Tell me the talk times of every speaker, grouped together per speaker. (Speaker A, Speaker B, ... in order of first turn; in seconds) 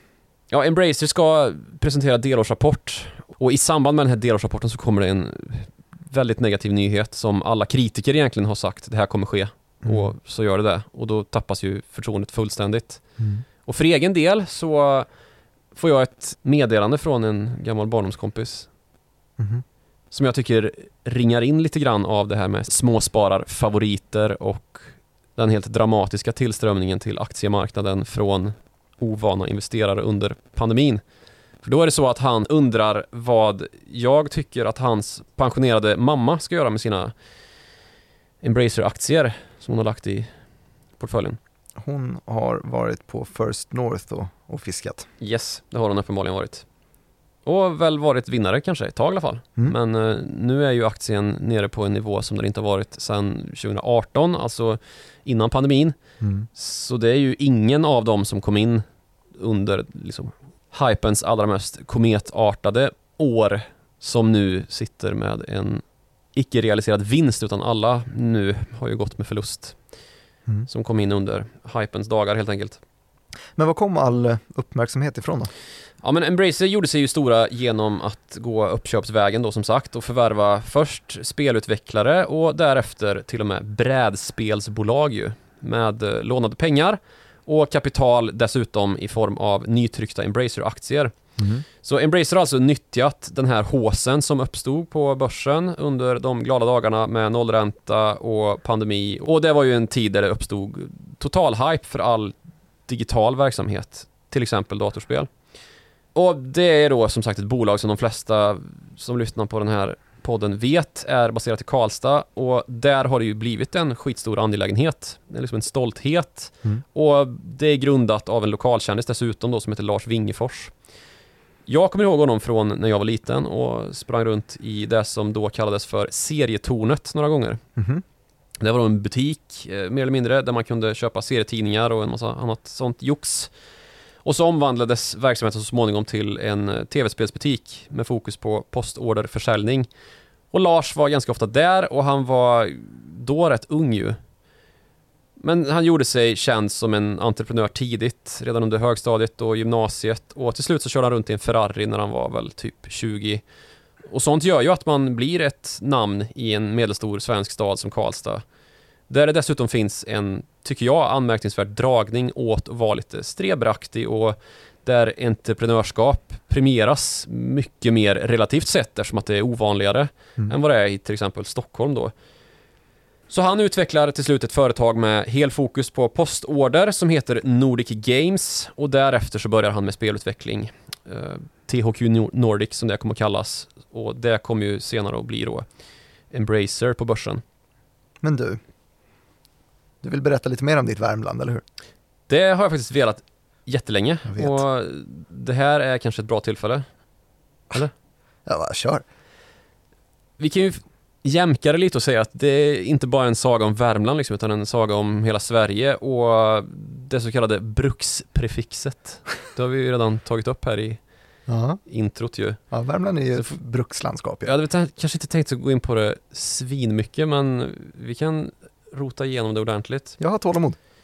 Speaker A: 0.5-13.0, 13.6-15.1, 15.7-18.7, 20.1-31.0, 31.6-37.1, 38.4-40.3, 41.0-41.4, 45.2-46.6, 47.4-56.0, 56.5-65.8, 66.3-69.8, 70.7-72.8, 76.0-91.2, 91.8-102.3, 102.9-105.3, 106.1-120.7, 121.7-127.6, 128.6-133.5, 134.2-139.9, 140.5-144.2, 145.4-153.4, 154.1-158.4, 159.1-172.1, 173.3-185.7, 186.3-187.4, 192.3-196.8, 200.4-211.0, 211.8-212.6, 214.4-220.2
Speaker B: 13.2-13.4, 19.4-19.6, 41.8-45.1, 56.2-56.5, 73.5-75.5, 91.4-91.6, 127.8-128.0, 188.2-188.6, 190.0-191.6, 194.3-194.6, 198.4-199.0, 211.5-211.8, 212.7-214.5, 220.2-220.8